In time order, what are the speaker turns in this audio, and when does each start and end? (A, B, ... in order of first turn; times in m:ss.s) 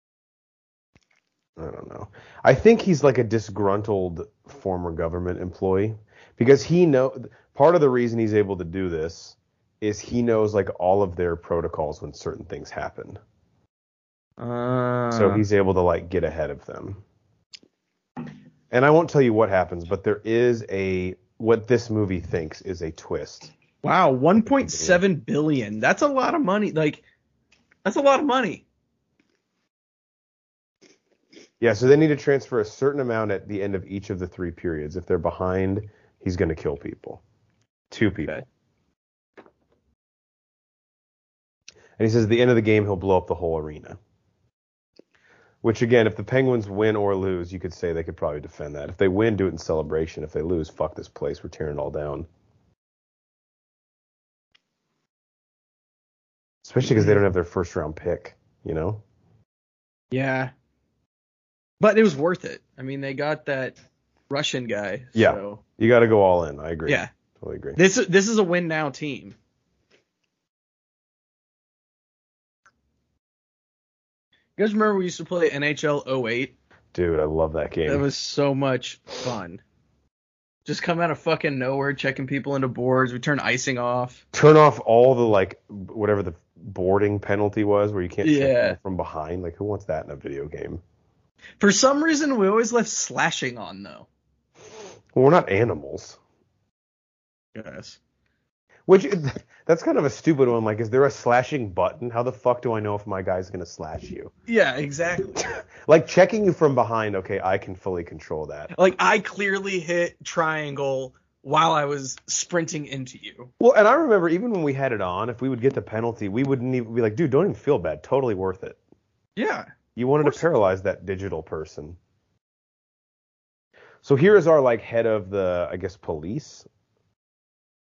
0:01.6-0:13.2 A
0:14.4-0:15.4 B
0:15.1-0:17.0 A
0:18.7-0:23.5 A
0:23.8-0:27.0 B
0:24.7-0:25.0 A
0:27.8-0:28.6 B
0:31.6-0:37.2 A
0:37.9-0:38.4 A
0:42.0-0:44.0 A
0:45.6-0:52.3 A
0:56.6-0:59.0 A
1:00.1-1:00.5 B
1:01.8-1:03.8 B
1:04.3-1:05.6 B
1:05.2-1:07.8 A
1:07.8-1:09.3 B
1:14.6-1:16.5 B
1:16.9-1:18.0 A
1:17.8-1:19.6 B
1:20.6-1:24.2 B
1:24.3-1:30.8 A
1:28.2-1:28.8 B
1:31.6-1:34.1 B
1:35.1-1:36.2 A
1:37.5-1:38.0 B
1:38.9-1:44.3 A
1:44.5-1:45.5 B
1:45.4-1:48.7 A
1:48.7-1:53.5 B
1:53.6-1:58.8 A
1:59.4-1:59.7 B
2:00.0-2:02.0 A
2:04.0-2:06.7 A